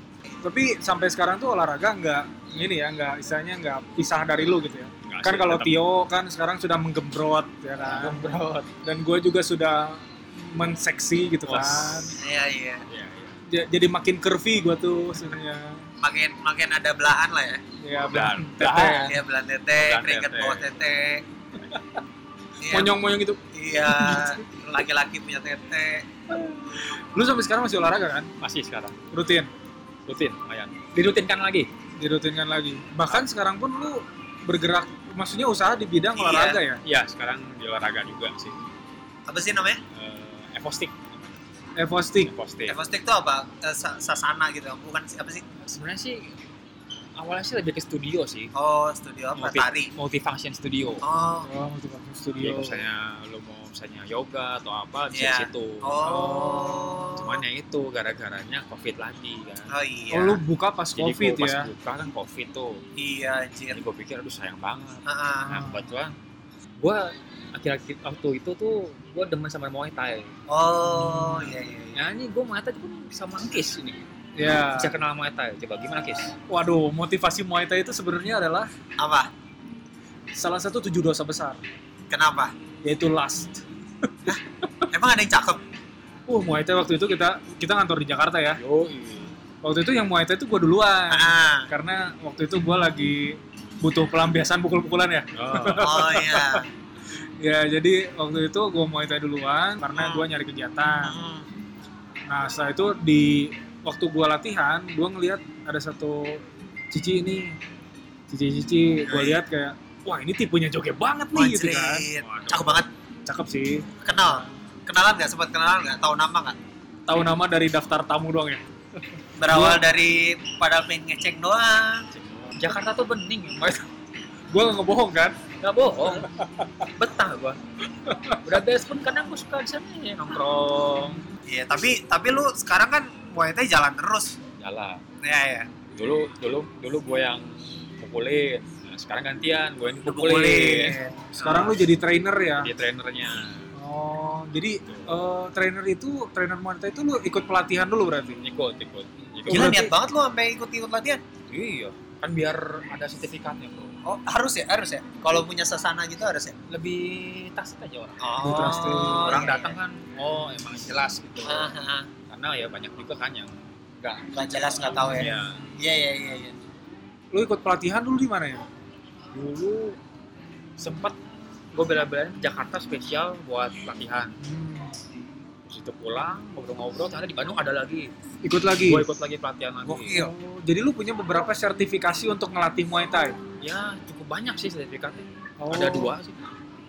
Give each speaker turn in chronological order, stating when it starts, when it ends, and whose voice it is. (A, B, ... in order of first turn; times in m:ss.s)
0:00.4-0:08.2 A
0:05.0-0:05.8 B
0:07.8-0:08.7 B
0:08.8-0:12.2 A
0:11.4-0:12.1 B
0:12.2-0:12.8 C
0:12.9-0:13.4 B
0:13.5-0:15.9 A
0:16.0-0:17.6 C
0:17.8-0:19.2 A
0:18.0-0:19.2 B
0:19.0-0:21.2 C
0:19.7-0:20.8 B
0:21.7-0:22.0 A
0:22.6-0:23.0 C
0:22.7-0:24.4 A
0:23.5-0:26.1 C
0:26.3-0:28.3 A
0:28.4-0:29.0 B
0:29.1-0:29.5 A
0:30.1-0:31.7 B
0:32.0-0:36.8 A
0:36.2-0:36.6 C
0:36.8-0:38.6 B
0:39.3-0:39.8 C
0:39.9-0:41.4 B
0:41.8-0:42.3 A
0:42.2-0:42.8 B
0:42.7-0:45.4 C
0:45.6-0:46.3 B
0:47.2-0:48.5 B
0:48.5-0:49.9 C
0:49.3-0:51.0 B
0:51.0-0:51.5 C
0:51.4-0:52.9 A
0:52.4-0:56.1 B
0:55.1-0:57.4 C
0:56.0-0:57.2 A
0:57.2-0:59.7 B
0:59.7-1:00.4 C
1:00.1-1:01.7 A
1:00.9-1:02.8 B
1:03.0-1:03.8 C
1:03.7-1:06.2 B
1:05.1-1:05.6 C
1:06.8-1:10.3 B
1:10.5-1:12.0 C
1:10.9-1:11.5 A
1:11.9-1:14.0 B
1:14.4-1:14.9 A
1:14.7-1:16.3 B
1:16.5-1:18.7 A
1:19.0-1:19.3 C
1:20.3-1:21.6 A
1:22.1-1:22.5 C
1:22.8-1:24.3 A
1:24.3-1:25.6 C
1:26.3-1:28.6 A
1:28.6-1:29.4 B
1:29.6-1:36.6 A
1:31.1-1:31.7 C
1:35.3-1:36.0 B
1:35.7-1:36.6 C
1:37.4-1:41.1 A
1:39.9-1:40.2 C
1:41.0-1:41.5 C
1:42.3-1:47.6 A
1:48.3-1:52.1 A
1:49.0-1:49.4 C
1:51.3-1:52.9 C
1:52.1-1:52.8 B
1:53.2-1:54.5 A
1:54.0-1:56.6 C
1:57.1-1:58.6 A
1:59.4-2:02.1 C
1:59.5-1:59.8 A
2:02.1-2:03.9 B
2:04.5-2:05.4 A
2:05.6-2:07.6 B
2:06.1-2:06.9 A
2:08.0-2:08.4 A
2:08.4-2:11.2 B
2:11.5-2:14.4 C
2:14.6-2:15.0 B
2:15.2-2:15.7 C
2:15.9-2:21.8 B
2:20.0-2:21.7 C
2:21.3-2:22.7 A
2:22.6-2:23.7 B
2:23.7-2:28.4 A
2:24.9-2:25.2 B
2:28.4-2:29.8 B
2:29.5-2:29.9 A
2:29.5-2:31.2 C
2:31.5-2:34.0 B
2:34.0-2:36.5 C
2:36.7-2:38.3 B
2:38.2-2:39.8 C
2:38.4-2:39.4 A
2:39.2-2:41.8 B
2:41.4-2:42.1 C
2:42.3-2:45.6 B
2:44.3-2:46.6 C
2:44.9-2:45.6 A
2:47.3-2:48.7 A
2:49.3-2:50.0 B
2:50.8-2:51.2 B
2:51.7-2:54.4 B
2:54.4-2:55.0 A
2:55.6-2:58.1 B
2:58.4-2:59.1 A
2:58.7-3:00.2 B
2:59.8-3:00.3 C
3:00.1-3:03.4 A
3:03.6-3:06.4 B
3:05.6-3:06.2 A